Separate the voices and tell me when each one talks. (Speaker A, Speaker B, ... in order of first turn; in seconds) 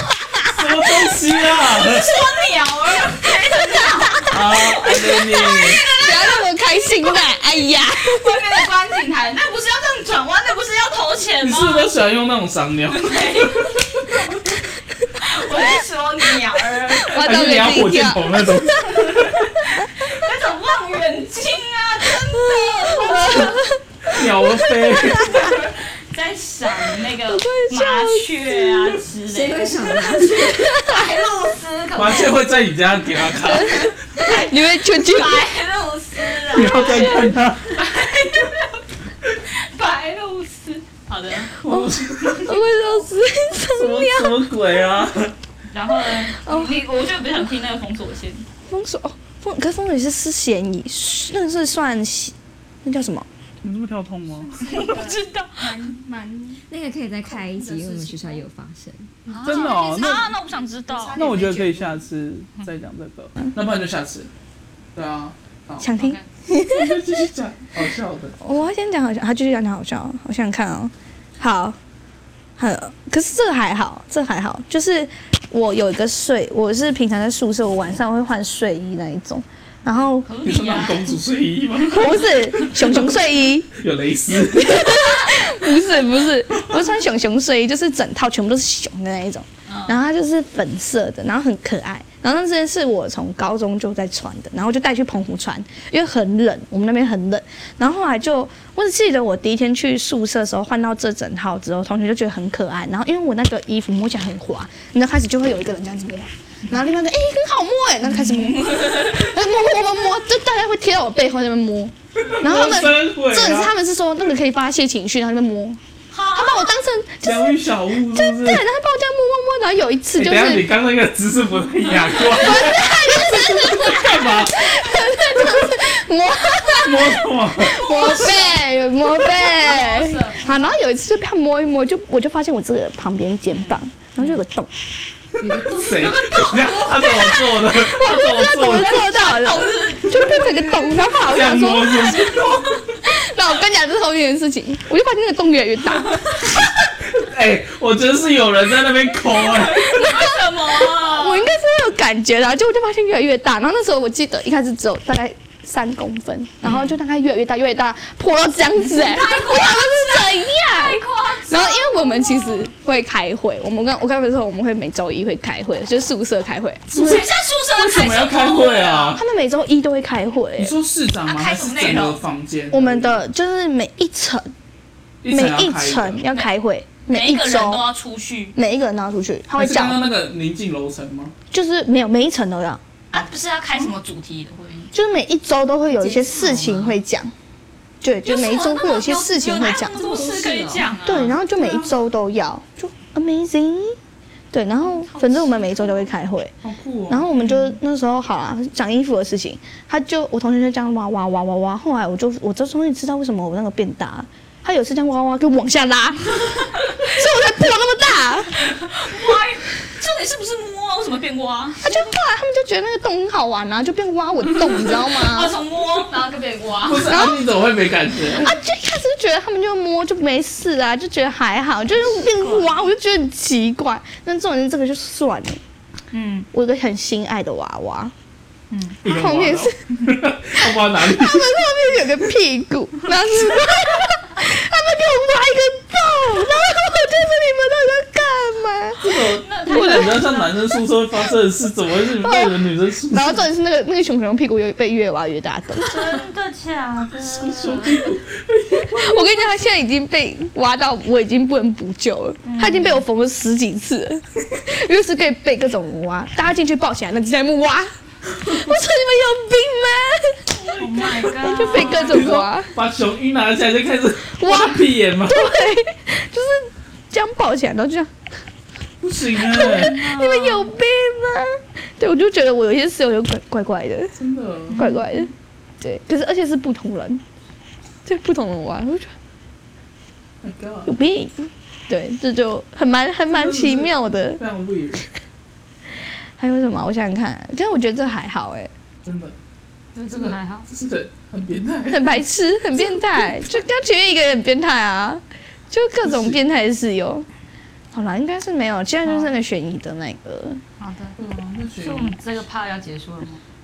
Speaker A: 0.4-2.1, 4.3-5.8, 11.4-14.2, 17.1-19.6, 24.1-25.3, 32.0-34.0, 36.5-37.9, 41.5-42.6, 43.6-45.4, 53.6-54.6, 59.4-60.3, 61.1-64.3, 65.0-65.9, 66.7-68.4, 80.4-83.2, 83.8-85.2, 86.5-86.8, 112.2-113.7, 117.2-118.6, 120.2-124.6, 126.8-127.9, 135.4-139.1, 141.2-142.9, 147.1-150.0, 166.9-169.2, 170.6-173.2, 175.2-176.2, 179.6-181.3, 191.4-191.9, 196.6-197.3, 216.8-218.5, 229.0-231.6, 239.0-243.5, 247.1-249.4, 260.8-265.5, 269.0-270.0, 274.2-274.8, 280.4-280.9, 283.3-285.1, 289.1-289.4, 290.1-292.2, 296.0-296.4, 301.2-302.2
Speaker B: 1.6-6.4, 8.0-11.9, 12.9-14.3, 15.1-17.3, 18.8-23.6, 25.1-32.5, 33.6-38.8, 39.5-41.6, 45.7-48.5, 54.6-55.9, 59.3-61.3, 65.9-66.2, 80.2-81.1, 89.7-90.0, 108.1-109.4, 116.1-116.7, 122.1-122.6, 127.7-130.7, 133.5-134.4, 135.4-137.8, 138.5-142.8, 146.1-146.4, 149.3-151.5, 156.6-156.9, 158.9-162.7, 166.9-169.2, 171.2-172.2, 177.1-178.6, 183.1-184.9, 186.1-186.9, 188.2-191.4, 194.8-196.1, 197.4-197.7, 206.7-207.0, 208.6-211.8, 214.8-217.3, 222.1-222.7, 226.1-226.5, 228.7-229.0, 239.4-240.5, 245.8-248.1, 252.4-253.0, 260.5-262.3, 269.5-270.7, 274.7-275.3, 289.9-290.7, 299.1-299.3, 300.8-301.2, 301.8-303.4
Speaker C: 6.0-8.4, 17.0-18.9, 22.3-25.4, 27.2-28.3, 30.5-31.0, 33.4-35.4, 36.6-37.3, 41.7-44.5, 46.3-46.8, 48.7-53.3, 54.5-56.6, 57.3-58.4, 59.3-62.0, 65.8-67.0, 68.4-71.8, 72.6-80.3, 81.9-83.7, 84.4-115.8, 116.3-120.7, 122.3-134.7, 137.7-142.4, 143.0-146.5, 150.0-167.2, 169.2-170.7, 172.7-174.5, 175.3-177.8, 178.6-180.0, 181.5-182.8, 184.9-187.3, 188.0-190.0, 191.1-194.0, 194.5-196.6, 197.1-208.6, 211.8-215.6, 217.1-217.4, 218.3-225.6, 226.5-228.1, 229.0-229.8, 230.6-240.4, 242.2-246.2, 248.8-260.4, 261.4-262.7, 264.4-268.1, 269.5-274.1, 274.7-277.2, 278.1-279.1, 280.9-284.4, 286.4-288.7, 291.9-297.3, 297.9-300.6
Speaker D: 29.3-31.0, 56.7-59.1, 186.0-186.8, 189.7-190.9